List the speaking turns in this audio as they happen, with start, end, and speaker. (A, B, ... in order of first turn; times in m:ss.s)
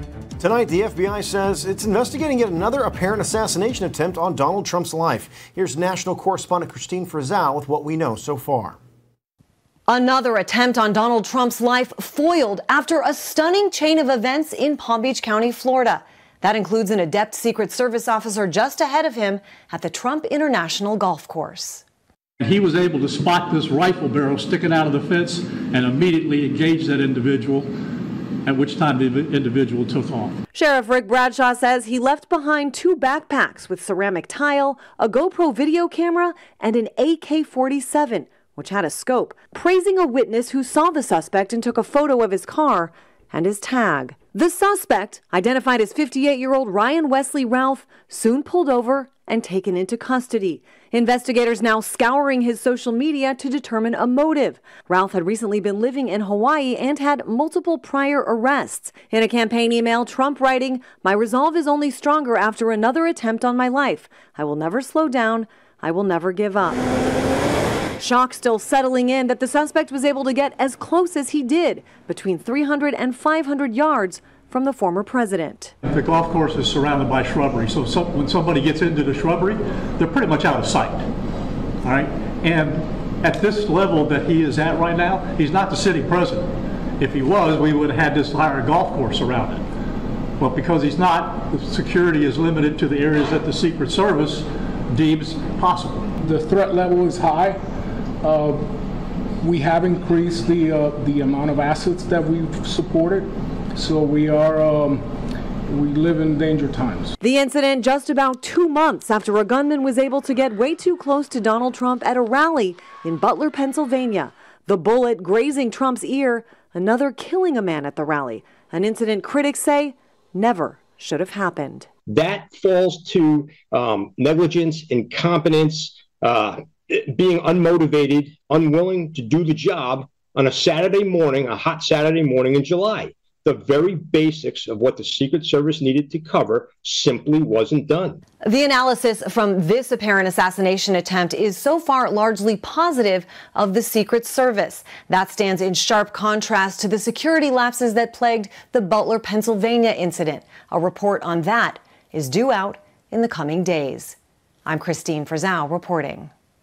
0:00.4-0:08.8 A
0:09.9-0:21.8 B
0:22.4-0:27.7 C
0:28.4-0:30.4 C
0:30.5-1:06.8 B
1:08.0-1:15.7 B
1:15.8-1:21.1 C
1:21.8-1:29.6 C
1:30.4-1:36.1 C
1:36.2-1:37.6 D
1:38.2-1:38.7 D
1:39.4-1:45.0 D
1:45.7-1:47.2 D
1:47.2-2:01.9 B
2:02.1-2:18.2 E
2:18.4-2:36.3 B